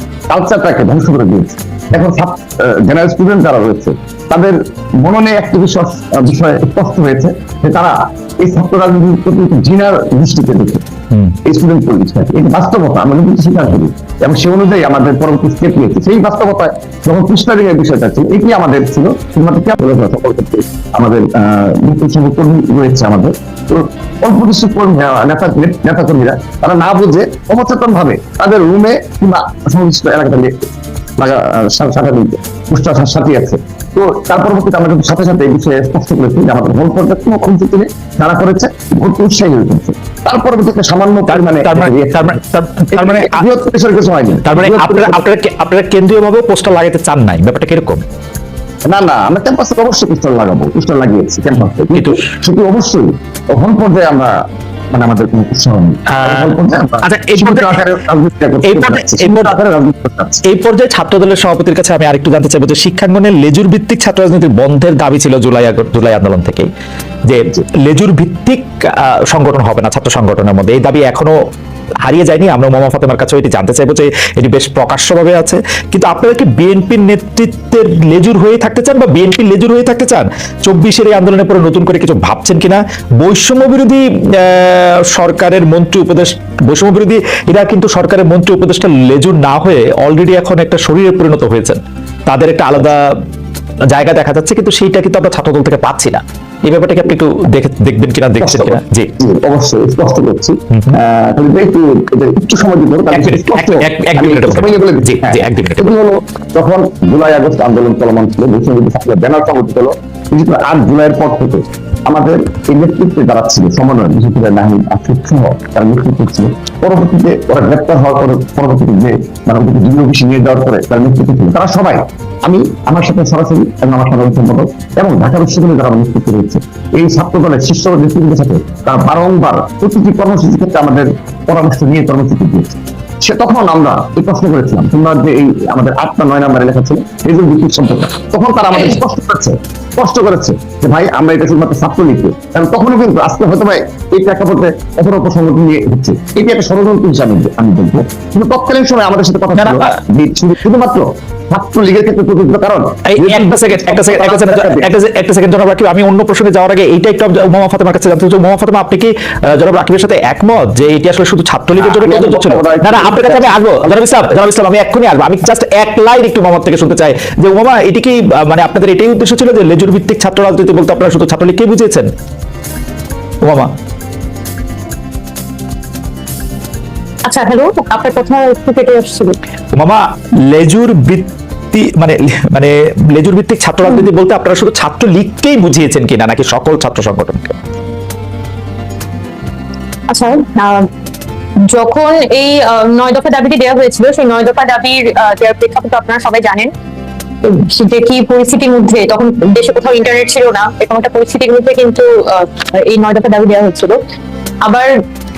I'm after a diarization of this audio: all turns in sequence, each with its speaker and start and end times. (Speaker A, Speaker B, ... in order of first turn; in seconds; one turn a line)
Speaker A: 0.3-10.8
Speaker A: 11.4-30.5
Speaker A: 31.2-42.4
Speaker B: 41.3-43.5
Speaker A: 42.9-45.2
Speaker B: 44.5-48.0
Speaker A: 48.9-54.4
Speaker B: 52.0-52.2
Speaker A: 54.9-60.4
Speaker B: 56.1-57.8
Speaker B: 58.6-59.5
Speaker B: 60.4-66.7
Speaker B: 67.2-71.3
Speaker B: 72.0-93.1
Speaker B: 93.9-99.1
Speaker A: 98.4-154.9
Speaker B: 103.1-105.9
Speaker B: 149.6-149.9
Speaker B: 153.1-172.1
Speaker A: 161.8-164.0
Speaker B: 173.4-173.7
Speaker C: 177.2-179.4
Speaker B: 179.7-187.6
Speaker C: 190.1-190.9
Speaker C: 191.7-196.7
Speaker C: 197.4-204.0
Speaker C: 204.6-205.0